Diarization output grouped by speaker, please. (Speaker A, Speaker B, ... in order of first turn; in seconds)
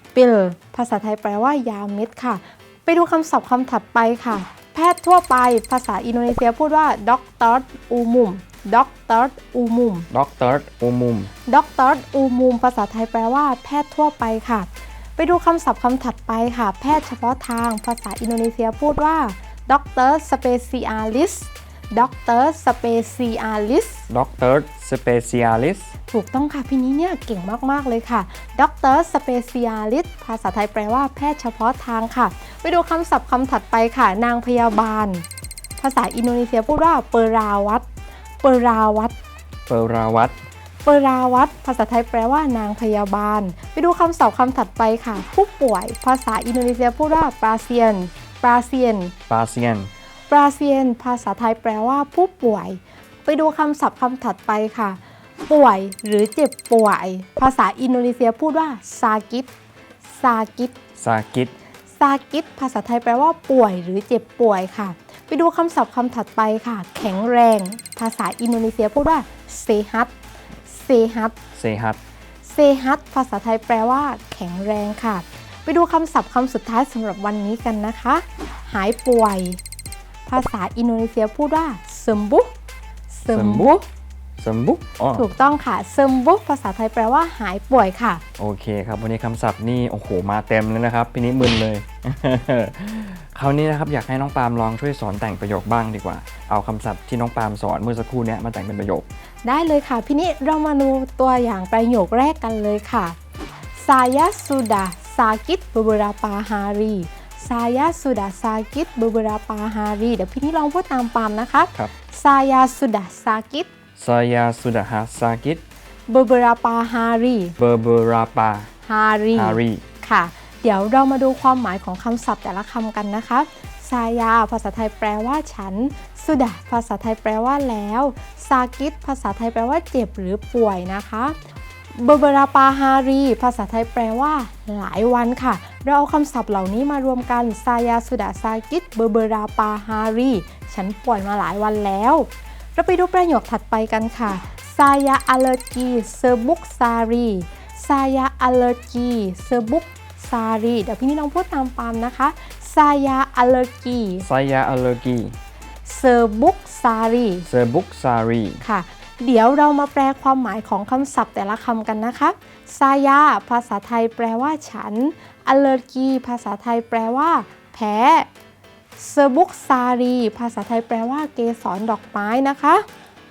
Speaker A: 0.1-10.1, 11.5-24.0, 26.1-35.2, 35.8-37.9, 38.4-39.1, 40.8-49.1, 50.3-59.5, 60.1-60.7, 61.9-70.1, 70.7-71.3, 72.4-79.6, 80.2-82.5, 83.1-83.8, 85.1-88.2, 99.4-103.2, 103.8-113.7, 116.1-117.5, 118.8-131.4, 131.9-154.3, 155.8-157.5, 158.6-168.3, 169.0-172.8
Speaker B: 10.1-11.3, 24.1-25.9, 39.7-40.3, 49.3-49.9, 61.0-61.5, 71.5-72.0, 83.3-83.8, 84.4-85.2, 88.4-99.0, 114.0-115.6, 117.6-118.7, 119.3-119.8, 154.2-155.3, 157.4-158.6